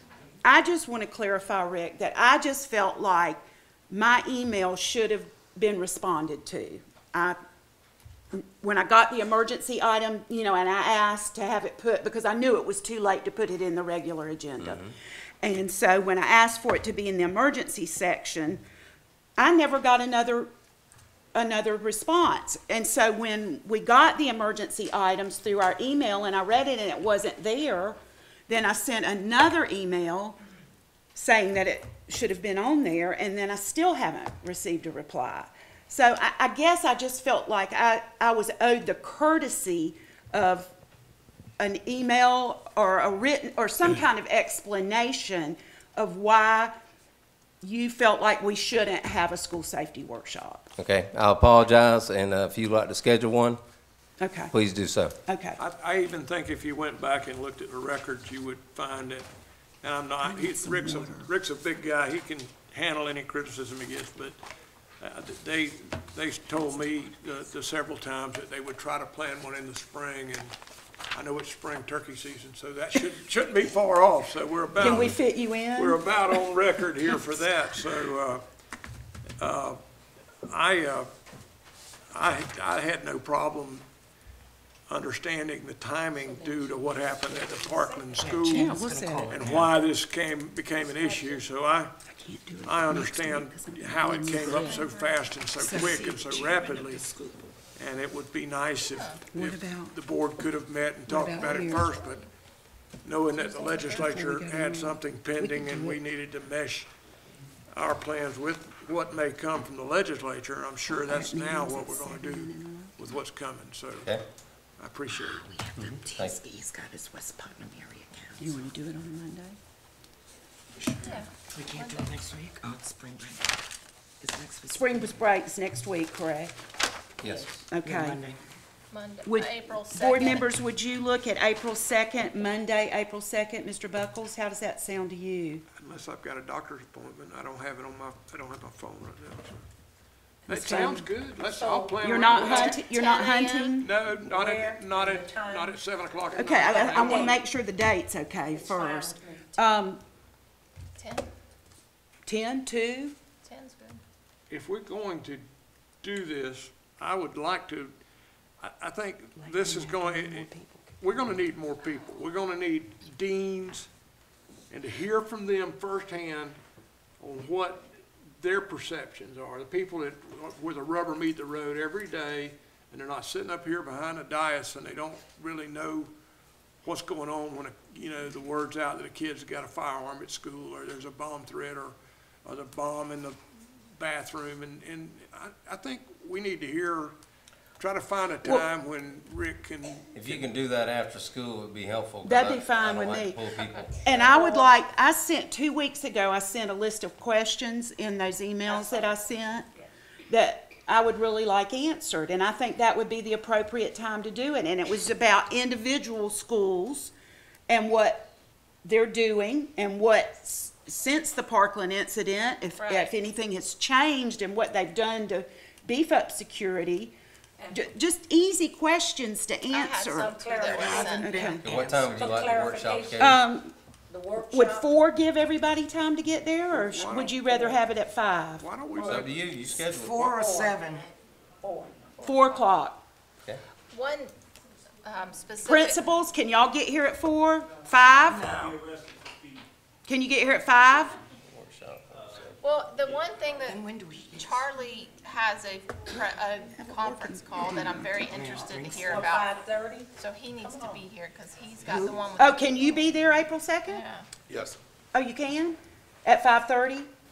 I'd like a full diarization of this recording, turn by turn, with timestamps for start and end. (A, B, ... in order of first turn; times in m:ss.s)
0:00.4-0:07.4 A
0:08.3-0:18.6 A
0:14.6-0:14.9 B
0:19.4-0:20.5 A
0:21.3-0:28.0 A
0:28.5-0:30.4 A
0:31.1-0:40.7 A
0:41.6-0:46.7 A
0:47.6-0:50.7 A
0:50.8-0:53.6 B
0:54.2-0:54.5 A
0:54.5-0:55.2 B
0:55.3-0:55.6 A
0:55.6-0:59.3 C
0:59.8-1:04.4 C
1:00.2-1:01.3 A
1:05.0-1:10.5 C
1:11.1-1:18.4 C
1:14.8-1:16.4 A
1:19.4-1:19.8 C
1:20.5-1:21.1 C
1:22.1-1:23.8 C
1:24.9-1:28.7 C
1:26.1-1:28.6 D
1:28.1-1:29.8 E
1:28.5-1:29.5 A
1:29.3-1:31.9 C
1:30.8-1:31.4 D
1:32.1-1:34.9 A
1:32.6-1:37.0 C
1:34.6-1:35.2 F
1:35.6-1:36.6 A
1:35.9-1:37.4 E
1:37.8-1:42.2 C
1:38.9-1:39.3 F
1:39.3-1:39.9 A
1:41.1-1:41.9 A
1:41.8-1:42.3 F
1:43.0-1:46.9 C
1:43.3-1:46.0 A
1:47.7-1:54.2 C
1:50.9-1:52.9 A
1:54.8-1:55.4 C
1:55.1-1:58.6 E
1:55.8-1:56.4 B
1:58.4-1:59.6 A
2:00.8-2:03.6 E
2:01.0-2:02.1 F
2:04.2-2:05.2 E
2:04.7-2:06.5 A
2:07.2-2:07.6 B
2:07.7-2:08.2 A
2:07.8-2:08.4 E
2:08.9-2:10.5 F
2:09.2-2:15.6 A
2:15.8-2:19.6 C
2:20.5-2:22.8 D
2:20.5-2:22.8 C
2:20.5-2:21.0 A
2:22.0-2:23.9 A
2:22.9-2:23.8 F
2:23.8-2:27.4 C
2:24.1-2:27.4 D
2:26.4-2:30.0 A
2:28.5-2:29.8 D
2:31.0-2:31.3 F
2:32.3-2:33.2 A
2:33.4-2:34.0 F
2:34.5-2:35.4 C
2:36.0-2:37.9 C
2:38.6-2:43.9 C
2:39.4-2:40.8 E
2:44.7-2:46.6 C
2:47.2-2:56.1 C
2:56.8-3:03.4 C
3:04.0-3:07.2 C
3:07.8-3:10.5 C
3:10.1-3:13.9 B
3:12.2-3:13.4 A
3:14.0-3:19.7 A
3:14.1-3:14.6 D
3:18.6-3:19.2 D
3:20.3-3:27.1 A
3:27.7-3:28.3 A
3:28.8-3:37.1 A
3:32.7-3:33.2 F
3:37.6-3:37.9 D
3:37.7-3:41.7 A
3:39.7-3:41.4 F
3:40.2-3:43.5 D
3:41.3-3:43.4 B
3:41.6-3:41.9 E
3:43.2-3:43.7 A
3:44.1-3:44.9 D
3:44.5-3:48.7 A
3:46.7-3:47.4 C
3:47.1-3:47.8 D
3:48.6-3:49.3 C
3:48.9-3:49.3 D
3:49.0-3:50.2 B
3:49.9-3:51.1 E
3:50.2-3:50.8 D
3:51.6-3:52.3 D
3:52.2-3:53.0 A
3:53.9-3:54.4 F
3:55.0-3:56.0 F
3:55.7-3:58.5 A
3:58.3-3:58.8 E
4:00.0-4:01.2 A
4:01.4-4:02.6 B
4:02.6-4:09.6 F
4:03.6-4:04.7 E
4:06.7-4:08.1 A
4:07.7-4:09.2 E
4:09.1-4:10.1 D
4:10.1-4:13.1 F
4:10.7-4:11.0 D
4:11.8-4:12.2 E
4:12.4-4:14.0 A
4:13.8-4:14.3 F
4:15.1-4:17.1 A